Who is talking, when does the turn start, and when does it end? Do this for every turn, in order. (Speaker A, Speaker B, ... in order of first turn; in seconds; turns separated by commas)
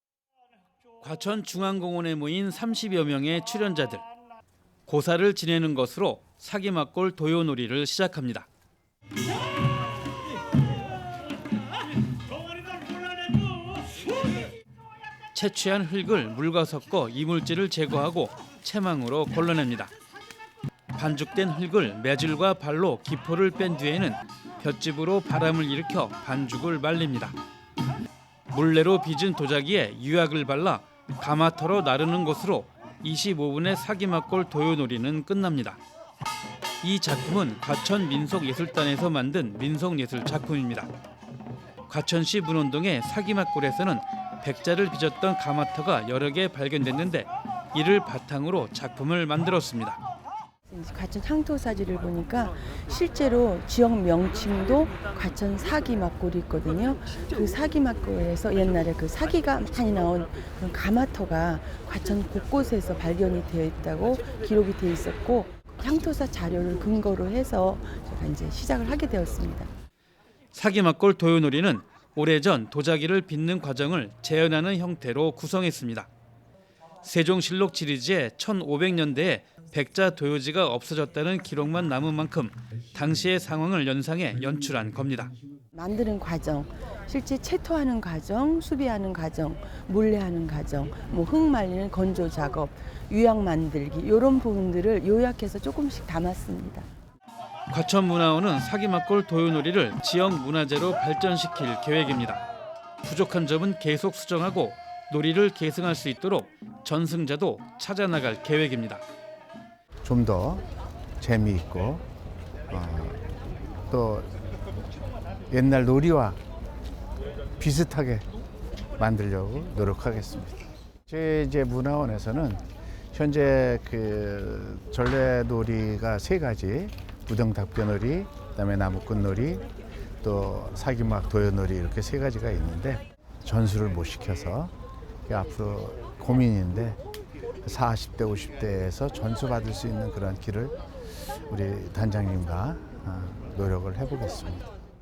Speaker A: 1.0-4.0, Speaker A: 4.9-8.5, Speaker A: 15.3-19.9, Speaker A: 20.9-27.4, Speaker A: 28.5-35.8, Speaker A: 36.8-40.9, Speaker A: 41.9-50.0, Speaker B: 50.7-69.7, Speaker A: 70.5-76.1, Speaker A: 77.0-85.3, Speaker B: 85.7-96.9, Speaker A: 97.7-102.4, Speaker A: 103.0-109.0, Speaker C: 110.0-110.7, Speaker C: 111.2-112.0, Speaker C: 112.7-113.2, Speaker C: 113.9-114.3, Speaker C: 115.5-116.4, Speaker C: 117.6-118.2, Speaker C: 119.0-129.7, Speaker C: 130.2-134.7, Speaker C: 135.3-137.0, Speaker C: 137.6-144.7